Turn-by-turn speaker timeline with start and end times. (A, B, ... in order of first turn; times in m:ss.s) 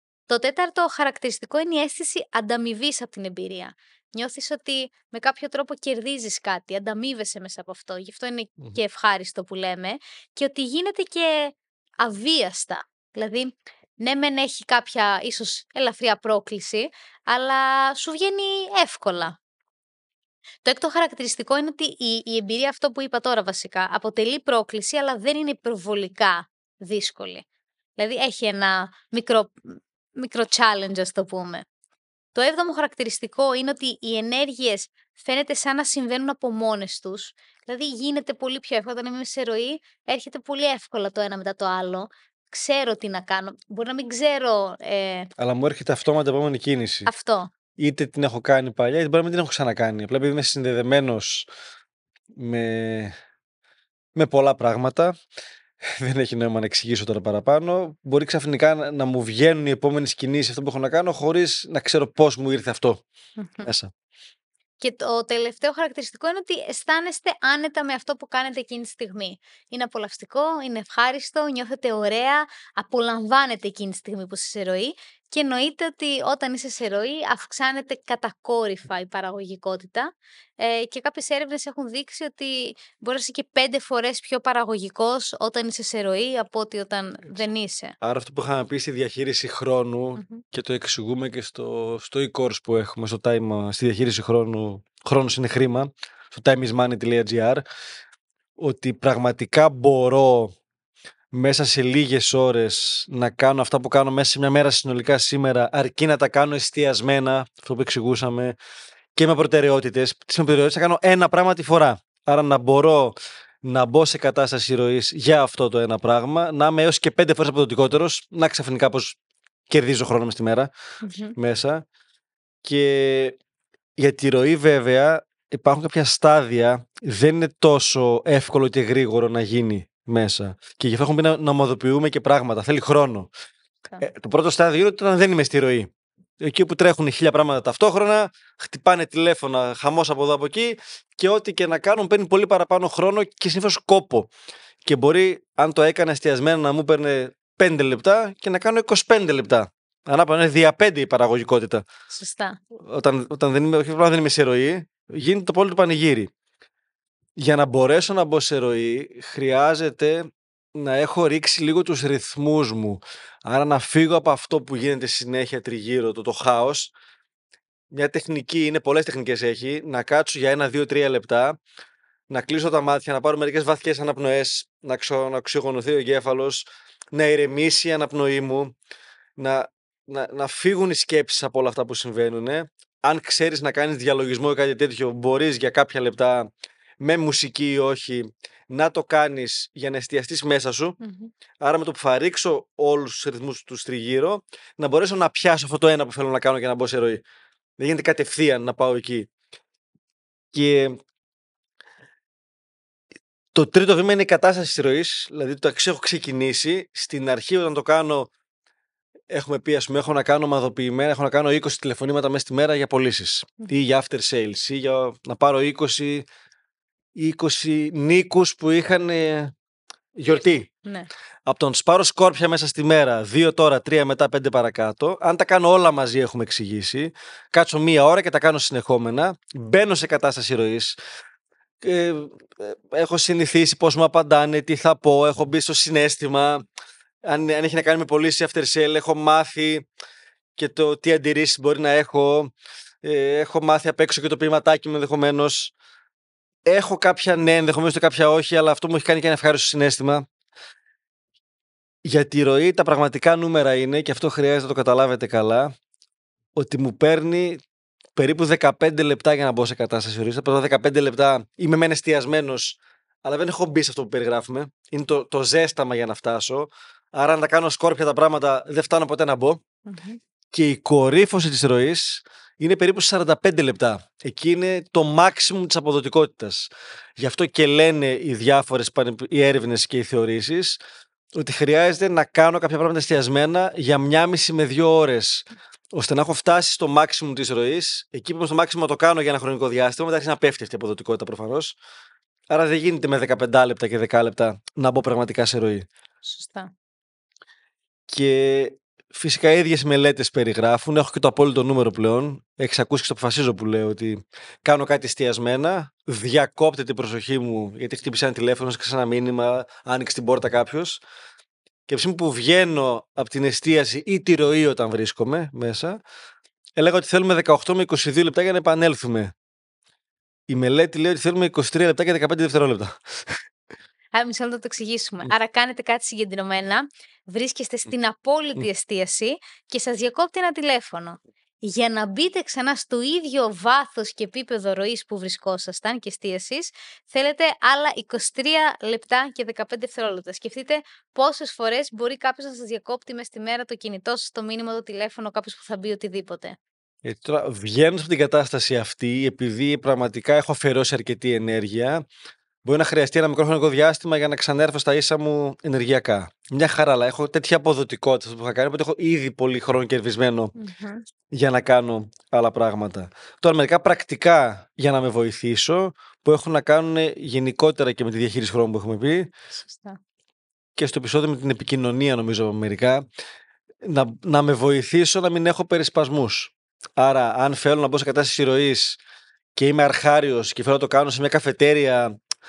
0:00.3-0:19.4 A
0:20.6-0:27.4 A
0:28.0-0:31.7 A
0:32.3-0:45.3 A
0:45.4-0:47.1 B
0:47.1-0:47.5 A
0:47.8-0:51.5 B
0:52.4-0:53.1 B
0:54.2-0:55.2 B
0:55.9-1:03.0 B
1:03.4-1:03.7 A
1:03.6-1:03.9 B
1:04.8-1:28.0 A
1:28.0-1:37.6 B
1:30.2-1:30.4 A
1:38.6-1:40.5 B
1:41.3-1:48.6 B
1:49.2-1:59.2 B
1:59.7-2:00.7 B
2:01.0-2:01.4 A
2:01.4-2:01.8 B
2:02.6-2:03.4 B
2:04.0-2:13.3 B
2:14.0-2:24.3 B
2:24.8-2:31.8 B
2:32.1-2:32.6 A
2:32.8-2:36.3 B
2:37.4-2:46.9 B
2:47.9-2:51.6 B
2:52.3-2:58.7 B
2:59.4-3:06.5 B
3:07.0-3:11.0 B
3:11.0-3:11.3 A
3:11.6-3:17.2 B
3:17.8-3:19.3 B
3:20.5-3:21.0 B
3:23.5-3:28.3 B
3:29.3-3:36.3 B
3:37.2-3:39.5 B
3:40.2-3:40.7 B
3:41.5-3:51.0 B
3:51.8-3:56.6 B
3:57.2-3:59.8 B
4:00.6-4:02.5 B
4:03.0-4:05.7 B
4:06.7-4:10.2 B
4:12.0-4:15.7 B
4:16.6-4:17.6 B
4:18.2-4:29.6 B
4:29.9-4:30.2 A
4:30.5-4:40.8 B
4:41.3-4:51.8 B
4:52.5-4:55.9 B
4:56.2-4:56.7 A
4:58.1-5:11.0 B
5:11.9-5:16.0 B
5:16.8-5:19.3 B
5:20.5-5:23.4 B
5:24.1-5:46.6 A
5:47.0-5:52.0 B
5:52.6-6:00.5 B
6:00.6-6:01.1 A
6:01.3-6:09.3 B
6:09.5-6:10.0 A
6:10.8-6:13.0 B
6:13.8-6:19.0 B
6:19.6-6:22.1 B